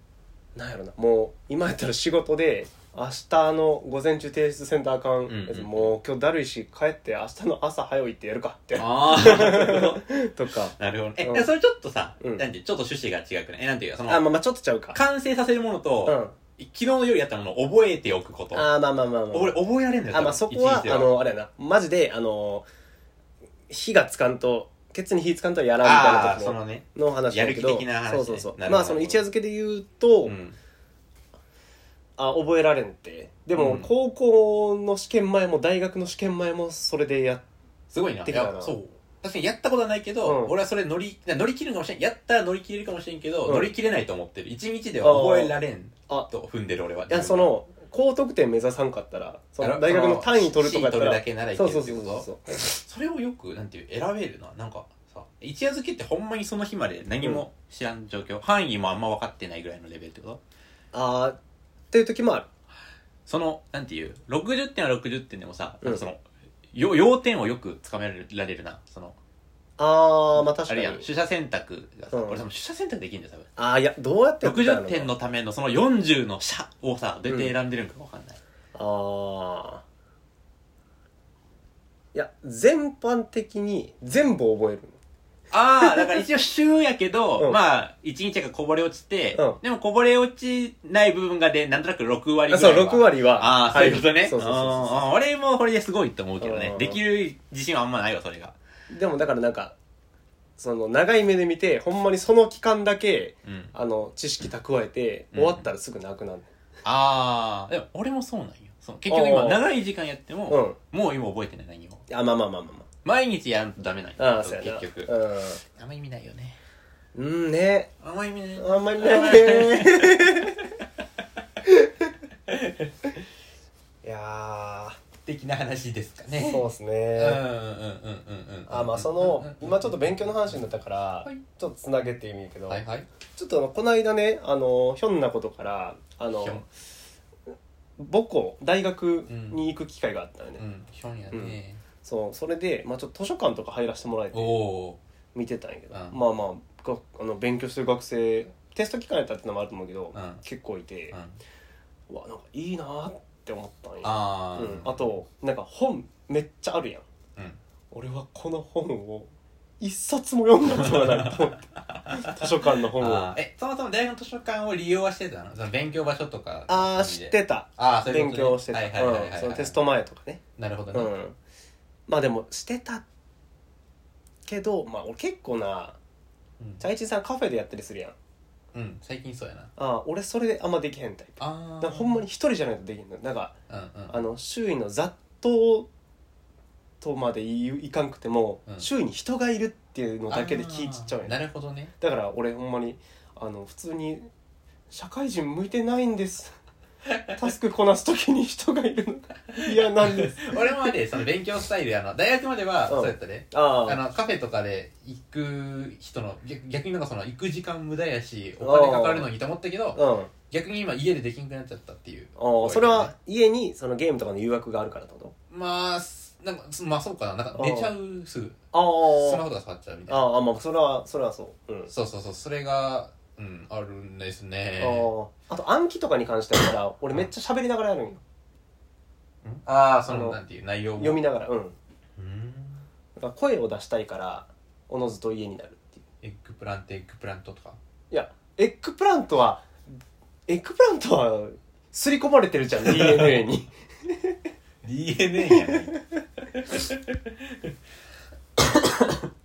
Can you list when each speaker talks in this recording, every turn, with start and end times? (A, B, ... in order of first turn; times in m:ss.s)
0:00.6-0:11.5 A
0:05.3-0:05.9 B
0:08.8-0:10.1 B
0:10.7-0:14.2 B
0:14.1-0:15.0 A
0:14.9-0:18.7 B
0:16.0-0:16.3 A
0:18.5-0:19.6 A
0:19.3-0:21.1 B
0:20.1-0:22.7 A
0:23.7-0:30.3 A
0:25.8-0:29.2 B
0:30.2-0:30.6 B
0:32.2-0:37.4 A
0:33.6-0:33.9 B
0:37.9-0:47.5 B
0:38.2-0:38.7 A
0:40.2-0:40.5 A
0:43.4-0:43.7 A
0:45.0-0:45.6 A
0:47.1-0:52.6 A
0:49.6-1:00.4 B
1:00.9-1:01.4 A
1:01.9-1:02.5 A
1:03.2-1:09.2 B
1:09.8-1:11.0 A
1:10.6-1:13.5 B
1:12.1-1:12.4 A
1:13.6-1:15.1 A
1:14.4-1:18.4 B
1:17.3-1:17.5 A
1:18.7-1:19.8 A
1:22.1-1:25.0 A
1:25.5-1:38.5 B
1:25.8-1:26.2 A
1:29.3-1:29.6 A
1:32.5-1:35.0 A
1:36.4-1:37.0 A
1:38.9-1:39.7 A
1:40.6-1:46.5 A
1:43.4-1:43.7 B
1:45.3-1:45.7 B
1:46.8-1:52.0 B
1:49.1-1:49.6 A
1:50.5-1:50.8 A
1:52.1-1:52.8 A
1:53.0-1:55.1 B
1:54.2-1:55.6 A
1:55.6-1:56.6 B
1:57.1-1:57.9 A
1:58.0-2:00.6 B
1:58.6-2:00.6 A
2:01.6-2:02.1 A
2:02.5-2:03.1 B
2:04.0-2:05.0 A
2:05.2-2:10.6 B
2:06.4-2:07.4 A
2:08.7-2:12.8 A
2:12.7-2:13.1 B
2:13.4-2:16.6 A
2:16.3-2:16.6 B
2:18.0-2:20.6 A
2:19.3-2:19.6 B
2:20.6-2:21.8 B
2:21.3-2:24.5 A
2:24.3-2:25.0 B
2:25.3-2:31.2 A
2:25.9-2:26.2 B
2:30.1-2:30.4 B
2:31.1-2:31.4 B
2:32.1-2:37.0 A
2:34.0-2:35.1 B
2:37.9-2:43.3 A
2:40.7-2:49.8 B
2:46.7-2:50.4 A
2:50.6-2:51.1 B
2:50.9-2:51.4 A
2:52.1-2:53.0 A
2:54.5-2:56.0 A
2:56.8-2:58.1 A
2:58.7-2:59.7 B
2:59.8-3:03.5 A
3:01.4-3:02.2 B
3:03.7-3:04.2 B
3:04.1-3:05.9 A
3:07.0-3:11.4 A
3:10.3-3:11.9 B
3:12.0-3:14.3 A
3:14.9-3:16.5 A
3:17.3-3:20.9 A
3:19.7-3:33.1 B
3:22.9-3:24.0 A
3:28.6-3:29.3 A
3:29.9-3:30.3 A
3:32.4-3:35.3 A
3:35.5-3:40.3 B
3:37.6-3:37.9 A
3:38.7-3:39.4 A
3:40.1-3:41.9 A
3:41.9-3:45.1 B
3:44.8-3:48.2 A
3:49.4-3:51.2 B
3:50.1-3:50.4 A
3:51.0-3:51.8 A
3:52.2-3:52.8 B
3:53.2-3:56.0 A
3:56.2-3:57.8 B
3:58.1-3:59.8 A
4:00.5-4:04.4 A
4:02.8-4:03.4 B
4:04.8-4:07.7 B
4:05.5-4:06.0 A
4:08.6-4:09.3 B